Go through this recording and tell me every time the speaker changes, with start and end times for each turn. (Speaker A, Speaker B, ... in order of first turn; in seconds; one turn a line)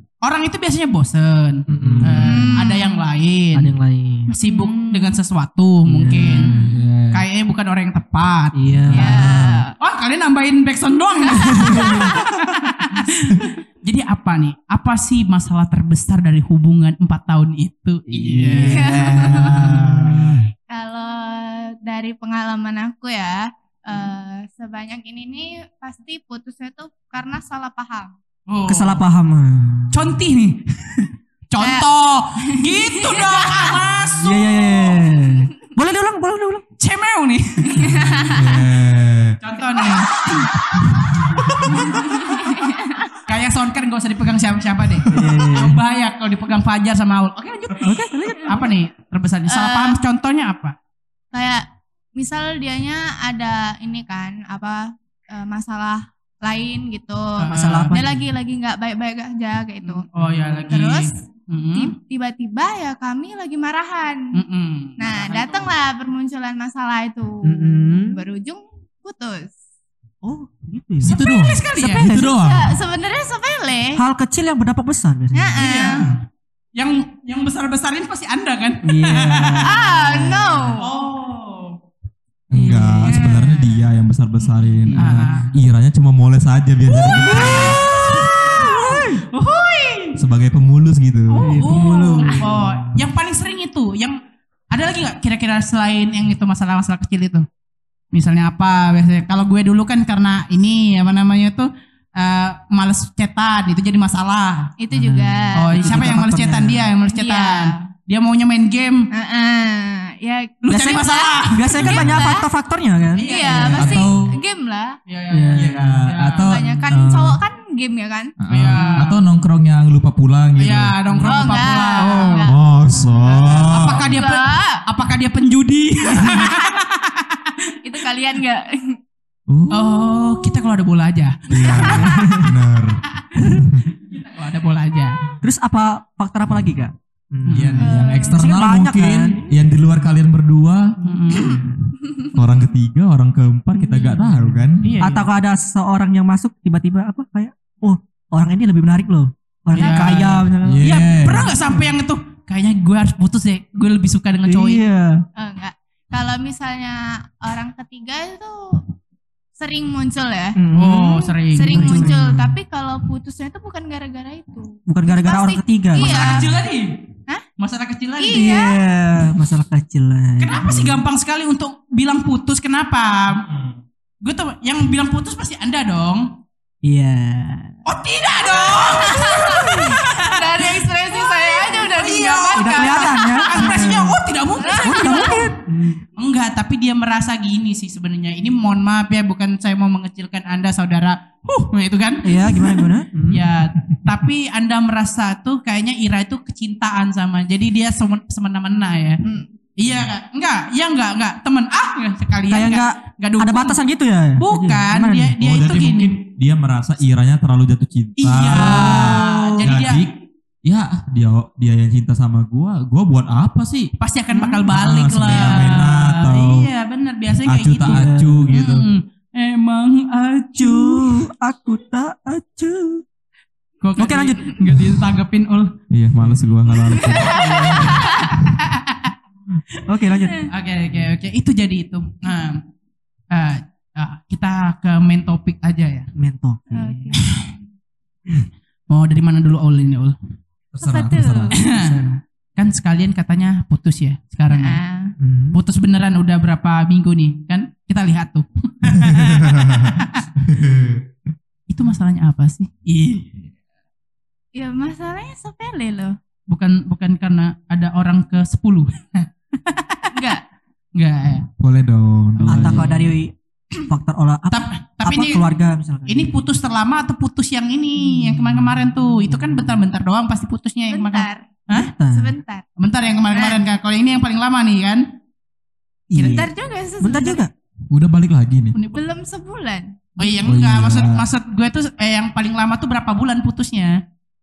Speaker A: 0.2-3.7
Speaker B: 1.7-2.6
Speaker C: 1.8-2.3
Speaker D: 2.2-3.0
Speaker B: 3.5-4.3
Speaker D: 4.3-5.2
Speaker A: 4.3-8.6
Speaker B: 5.9-6.8
Speaker D: 6.3-6.7
Speaker C: 6.5-7.2
Speaker B: 8.5-9.6
Speaker C: 8.9-9.2
Speaker D: 8.9-9.7
Speaker A: 9.8-20.3
Speaker D: 11.4-12.0
Speaker B: 11.4-12.4
Speaker B: 18.1-20.5
Speaker D: 18.7-19.7
Speaker D: 20.7-28.1
Speaker A: 28.5-29.0
Speaker B: 28.7-30.1
Speaker A: 29.9-34.9
Speaker D: 31.6-31.9
Speaker D: 32.4-33.7
Speaker B: 34.2-36.6
Speaker A: 36.8-37.9
Speaker D: 37.7-38.5
Speaker B: 37.8-38.1
Speaker C: 38.3-39.4
Speaker A: 39.4-40.1
Speaker B: 41.3-41.7
Speaker D: 42.0-43.2
Speaker A: 43.2-50.8
Speaker B: 45.1-45.8
Speaker B: 47.8-48.8
Speaker D: 49.5-50.0
Speaker D: 51.3-60.0
Speaker A: 57.4-58.0
Speaker B: 57.5-58.2
Speaker A: 59.8-61.9
Speaker D: 60.7-61.2
Speaker D: 61.7-64.4
Speaker A: 64.3-65.7
Speaker D: 65.0-69.5
Speaker B: 67.4-68.2
Speaker B: 70.2-71.2
Speaker A: 71.0-72.1
Speaker C: 71.0-72.8
Speaker B: 71.8-72.4
Speaker D: 72.1-74.0
Speaker B: 74.0-76.1
Speaker D: 75.3-76.0
Speaker A: 75.6-76.1
Speaker A: 76.8-79.8
Speaker B: 78.8-80.7
Speaker D: 79.6-80.9
Speaker A: 80.8-81.8
Speaker C: 82.5-87.8
Speaker B: 82.5-83.3
Speaker D: 83.0-83.9
Speaker B: 84.9-85.3
Speaker A: 84.9-85.5
Speaker B: 86.9-89.2
Speaker A: 87.1-90.2
Speaker C: 90.2-91.6
Speaker A: 91.3-94.2
Speaker B: 91.4-93.0
Speaker A: 94.7-97.5
Speaker A: 98.1-104.7
Speaker D: 104.8-106.1
Speaker B: 104.9-106.9
Speaker A: 105.5-109.1
Speaker D: 107.0-107.9
Speaker D: 109.1-112.5
Speaker A: 110.6-112.2
Speaker B: 110.7-114.1
Speaker A: 113.2-114.1
Speaker D: 113.2-115.0
Speaker C: 113.7-114.3
Speaker A: 115.1-116.6
Speaker B: 115.3-115.9
Speaker C: 115.5-117.4
Speaker D: 116.4-118.9
Speaker C: 118.4-121.6
Speaker A: 118.5-119.2
Speaker A: 120.6-122.4
Speaker D: 121.2-122.5
Speaker B: 121.9-123.5
Speaker C: 122.4-124.2
Speaker A: 123.2-127.7
Speaker D: 124.0-124.8
Speaker D: 126.4-126.8
Speaker D: 127.8-129.0
Speaker C: 129.5-130.1
Speaker A: 129.7-132.3
Speaker C: 131.5-133.9
Speaker D: 131.6-131.9
Speaker B: 131.9-132.6
Speaker A: 134.0-135.2
Speaker B: 135.4-137.8
Speaker A: 137.4-137.9
Speaker C: 137.5-141.6
Speaker D: 137.8-138.4
Speaker B: 138.3-139.5
Speaker A: 141.0-141.6
Speaker C: 142.2-144.9
Speaker B: 143.8-151.9
Speaker A: 144.8-145.3
Speaker A: 149.7-154.8
Speaker C: 149.8-151.5
Speaker B: 154.4-155.2
Speaker D: 155.4-158.8
Speaker D: 159.6-160.6
Speaker B: 160.5-162.6
Speaker A: 160.7-162.1
Speaker D: 161.5-166.6
Speaker B: 164.9-166.6
Speaker A: 165.9-167.0
Speaker A: 167.6-168.5
Speaker D: 168.2-168.8
Speaker B: 168.3-171.0
Speaker A: 170.4-173.5
Speaker C: 173.5-173.7
Speaker A: 174.2-176.3
Speaker B: 176.8-177.8
Speaker A: 177.9-185.5
Speaker D: 178.4-183.8
Speaker B: 179.4-180.0
Speaker B: 182.6-184.2
Speaker D: 184.6-185.4
Speaker B: 184.8-186.0
Speaker A: 186.2-199.2
Speaker B: 192.2-193.4
Speaker D: 199.2-199.5
Speaker A: 199.8-203.8
Speaker B: 202.5-205.4
Speaker A: 204.4-206.2
Speaker C: 205.4-213.9
Speaker A: 208.2-210.1
Speaker B: 208.5-209.9
Speaker A: 214.0-221.2
Speaker B: 214.3-214.7
Speaker C: 214.7-216.7
Speaker C: 217.4-218.9
Speaker B: 217.8-218.5
Speaker B: 220.6-223.0
Speaker A: 223.8-225.8
Speaker B: 224.0-224.4
Speaker C: 225.9-228.1
Speaker D: 226.9-228.4
Speaker B: 227.3-228.0
Speaker A: 227.3-229.1
Speaker B: 229.8-230.5
Speaker A: 230.5-232.6
Speaker A: 233.3-236.1
Speaker B: 236.2-237.2
Speaker D: 236.7-237.6
Speaker A: 237.2-237.5
Speaker A: 238.9-240.1
Speaker C: 240.7-241.6
Speaker D: 240.8-241.6
Speaker A: 241.5-242.0
Speaker B: 241.7-242.2
Speaker A: 242.6-244.8
Speaker D: 244.5-245.1
Speaker B: 245.2-245.6
Speaker A: 245.5-250.2
Speaker C: 248.9-251.1
Speaker A: 251.7-253.3
Speaker D: 254.5-256.2
Speaker A: 256.5-260.2
Speaker D: 260.1-260.4
Speaker A: 260.9-261.5
Speaker C: 261.6-262.9
Speaker A: 262.4-263.1
Speaker B: 262.5-266.4
Speaker A: 264.5-265.4
Speaker A: 266.1-271.9
Speaker B: 269.3-269.6
Speaker D: 270.9-271.5
Speaker B: 271.7-272.3
Speaker D: 272.1-272.6
Speaker A: 272.8-275.1
Speaker D: 273.3-273.6
Speaker B: 276.1-277.5
Speaker D: 276.2-277.4
Speaker C: 277.9-278.8
Speaker A: 278.7-279.0
Speaker D: 278.9-280.0
Speaker A: 280.2-284.0
Speaker C: 280.4-281.2